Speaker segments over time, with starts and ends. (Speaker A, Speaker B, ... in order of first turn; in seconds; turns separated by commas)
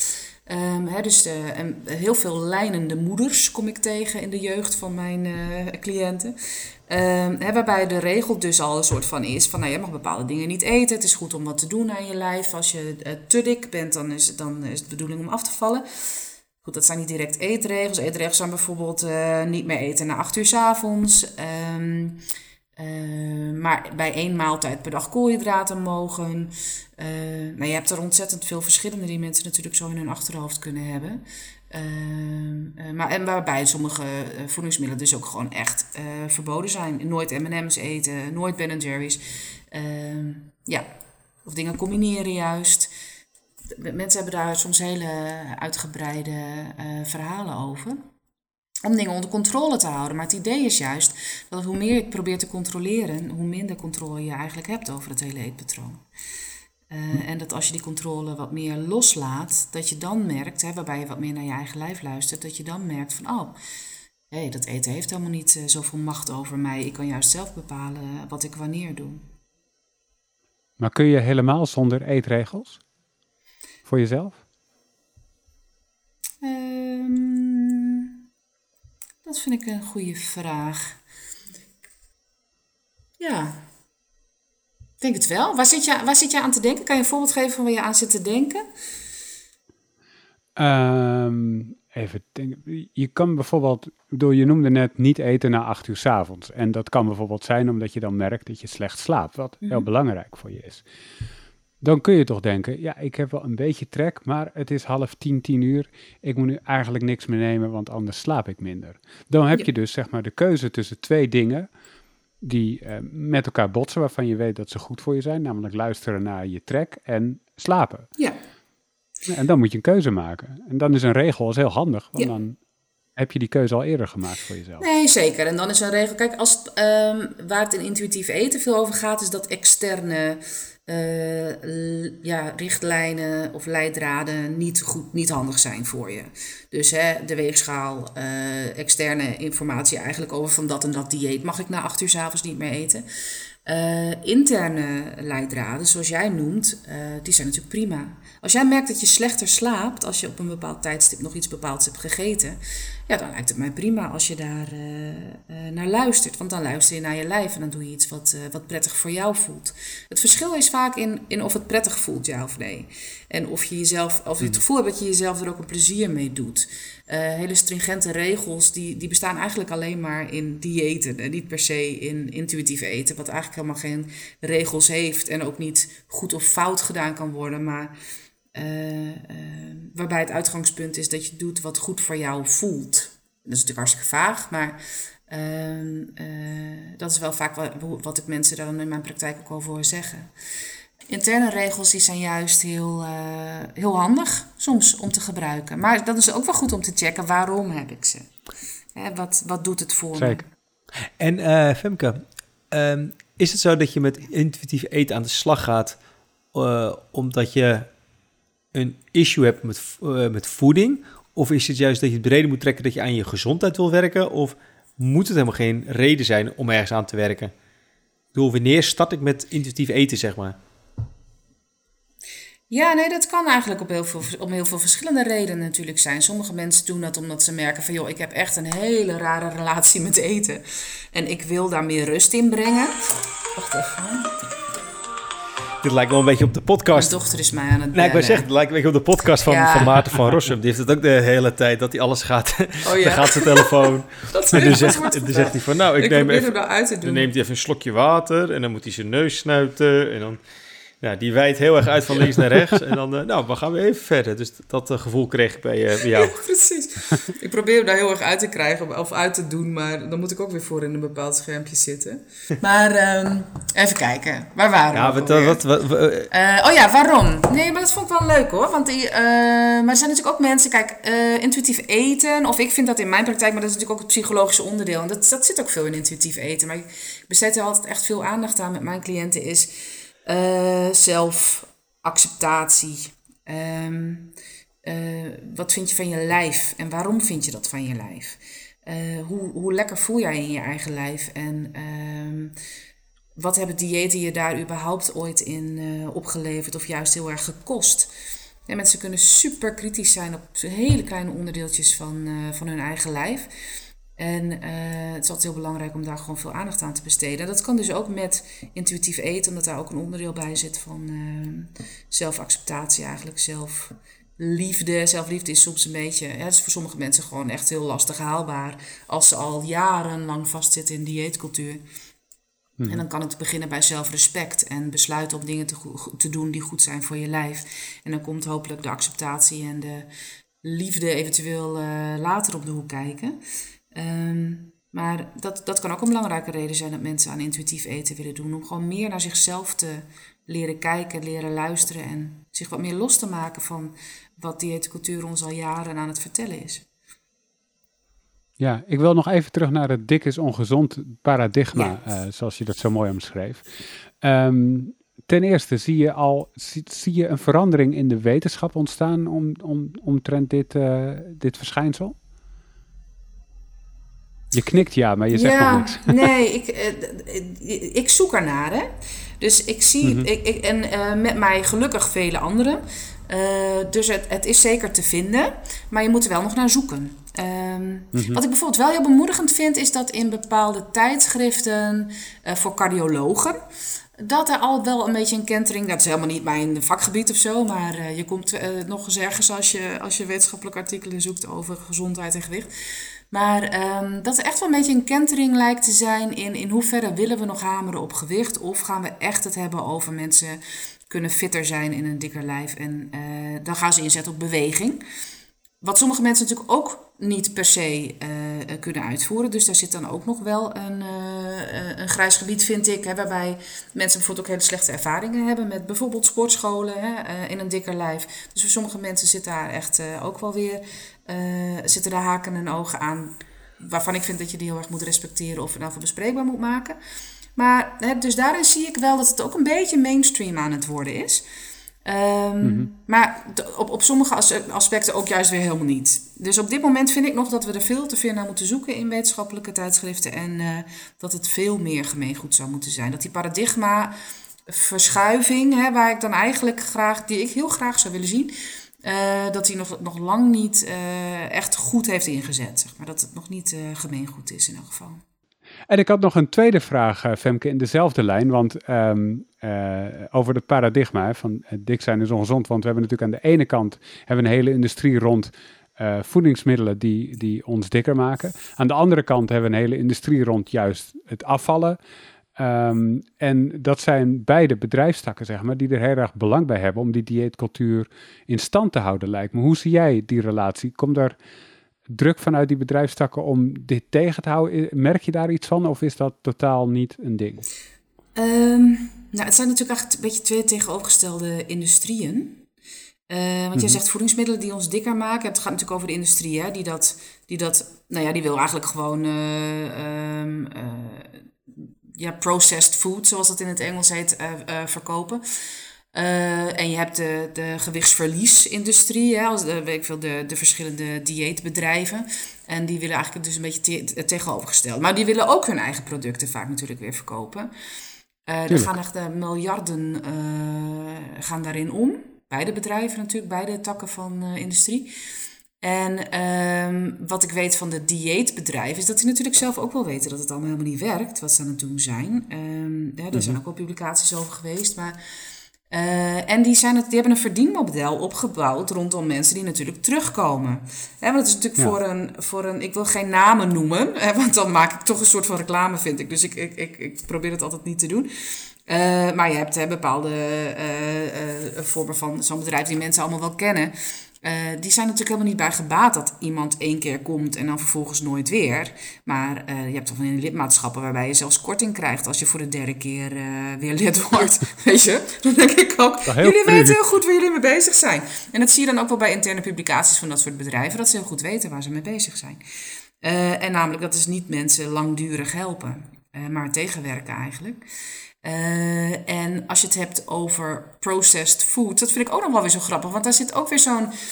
Speaker A: 0.5-6.3, Speaker A: 6.9-15.8, Speaker A: 16.6-22.2, Speaker A: 22.8-40.9, Speaker A: 41.5-42.9, Speaker A: 43.7-48.0, Speaker A: 48.8-56.0, Speaker A: 56.9-63.5, Speaker A: 64.3-69.2, Speaker B: 70.8-72.8, Speaker B: 73.9-74.4, Speaker A: 76.4-78.1, Speaker A: 79.2-81.0, Speaker A: 83.2-83.6, Speaker A: 85.0-88.6, Speaker B: 90.5-100.8, Speaker B: 101.8-111.7, Speaker B: 112.4-118.1, Speaker B: 119.3-122.6, Speaker B: 123.2-124.8, Speaker A: 124.8-143.0, Speaker A: 143.6-177.9, Speaker A: 178.5-190.3, Speaker A: 191.1-198.3, Speaker A: 198.9-200.5, Speaker B: 200.2-200.4, Speaker C: 201.2-206.0, Speaker C: 206.5-207.9, Speaker C: 208.7-217.5, Speaker C: 218.3-220.6, Speaker A: 222.7-234.3, Speaker C: 235.8-237.2, Speaker A: 236.9-238.5, Speaker C: 237.9-250.4, Speaker A: 239.4-240.1, Speaker A: 242.8-247.3, Speaker C: 251.0-256.4, Speaker A: 256.1-265.6, Speaker C: 264.9-266.3, Speaker A: 266.3-279.7, Speaker A: 280.2-284.3, Speaker A: 284.8-292.5, Speaker A: 293.4-298.1, Speaker A: 298.7-303.5, Speaker A: 304.2-321.8, Speaker A: 322.9-330.1, Speaker A: 330.6-333.4, Speaker A: 333.9-346.8, Speaker B: 348.6-353.6, Speaker B: 354.2-362.1, Speaker B: 364.5-366.2, Speaker A: 365.3-368.9, Speaker A: 369.4-383.6, Speaker B: 370.0-370.3, Speaker B: 378.1-378.4, Speaker A: 384.2-392.7, Speaker A: 393.3-405.0, Speaker A: 405.8-426.9, Speaker A: 427.6-431.4, Speaker A: 432.0-444.1, Speaker B: 432.6-432.9, Speaker A: 444.7-448.5, Speaker A: 449.0-455.2, Speaker B: 455.9-472.0, Speaker B: 472.6-481.4, Speaker B: 482.1-487.6, Speaker A: 488.4-492.6, Speaker A: 493.3-505.4, Speaker A: 506.1-517.7, Speaker A: 518.5-525.1, Speaker A: 525.8-535.2, Speaker A: 535.9-548.3, Speaker A: 548.9-572.6, Speaker B: 566.3-567.0, Speaker A: 573.2-577.8, Speaker A: 578.4-584.1